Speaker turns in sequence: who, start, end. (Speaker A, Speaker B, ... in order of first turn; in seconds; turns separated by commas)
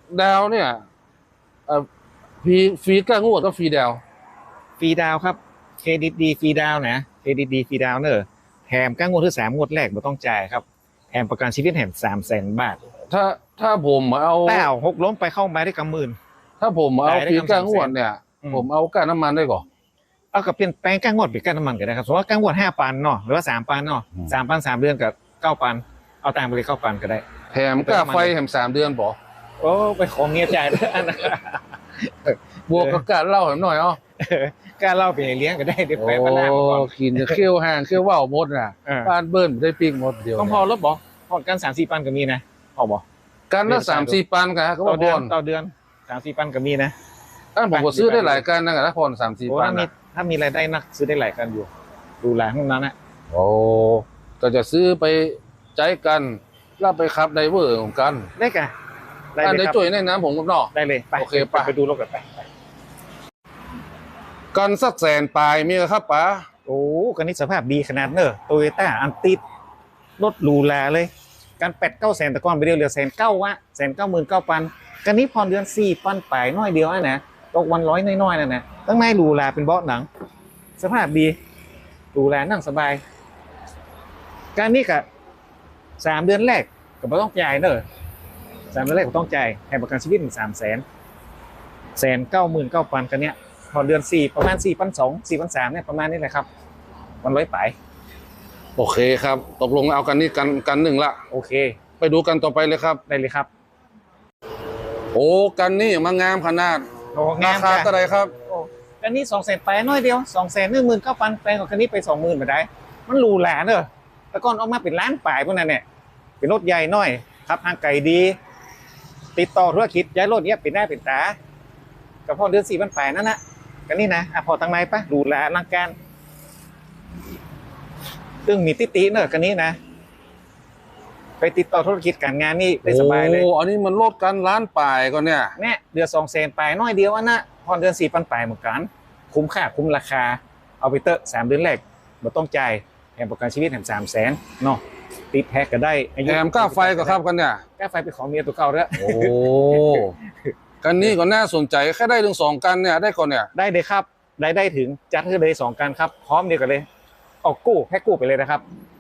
Speaker A: 0.1-0.8, Speaker A: 2.4-4.0, Speaker B: 4.8-12.8, Speaker A: 13.1-14.7, Speaker B: 14.5-16.2, Speaker A: 16.6-19.7, Speaker B: 17.0-18.7, Speaker B: 20.3-27.2, Speaker A: 27.5-29.2, Speaker B: 27.8-28.3, Speaker B: 29.6-33.0, Speaker A: 32.7-34.0, Speaker B: 34.2-37.4, Speaker A: 36.0-40.6, Speaker B: 38.9-39.1, Speaker B: 40.4-43.0, Speaker A: 43.5-45.3, Speaker B: 43.7-44.2, Speaker B: 44.8-46.9, Speaker A: 47.5-49.9, Speaker B: 47.7-48.5, Speaker B: 49.5-51.7, Speaker B: 52.2-52.9, Speaker A: 53.3-58.3, Speaker B: 58.4-58.7, Speaker B: 59.4-59.8, Speaker A: 59.4-61.7, Speaker B: 60.7-62.5, Speaker A: 64.5-66.5, Speaker B: 66.7-69.4, Speaker B: 70.2-80.1, Speaker B: 80.8-81.4, Speaker B: 82.1-83.0, Speaker B: 84.5-85.0, Speaker B: 86.0-87.8, Speaker B: 88.7-90.8, Speaker B: 92.0-96.5, Speaker B: 97.2-97.8, Speaker A: 98.8-101.2, Speaker B: 101.3-101.8, Speaker A: 102.0-103.0, Speaker B: 103.1-103.5, Speaker A: 105.1-106.9, Speaker B: 107.1-107.9, Speaker A: 107.4-108.3, Speaker B: 108.5-115.8, Speaker B: 116.4-118.4, Speaker B: 119.3-121.4, Speaker B: 122.3-126.0, Speaker B: 128.4-129.8, Speaker B: 131.4-133.5, Speaker A: 132.8-135.6, Speaker B: 135.6-147.2, Speaker A: 146.3-147.6, Speaker B: 147.8-150.1, Speaker A: 149.0-150.2, Speaker A: 150.8-153.5, Speaker B: 153.6-156.9, Speaker B: 157.4-158.6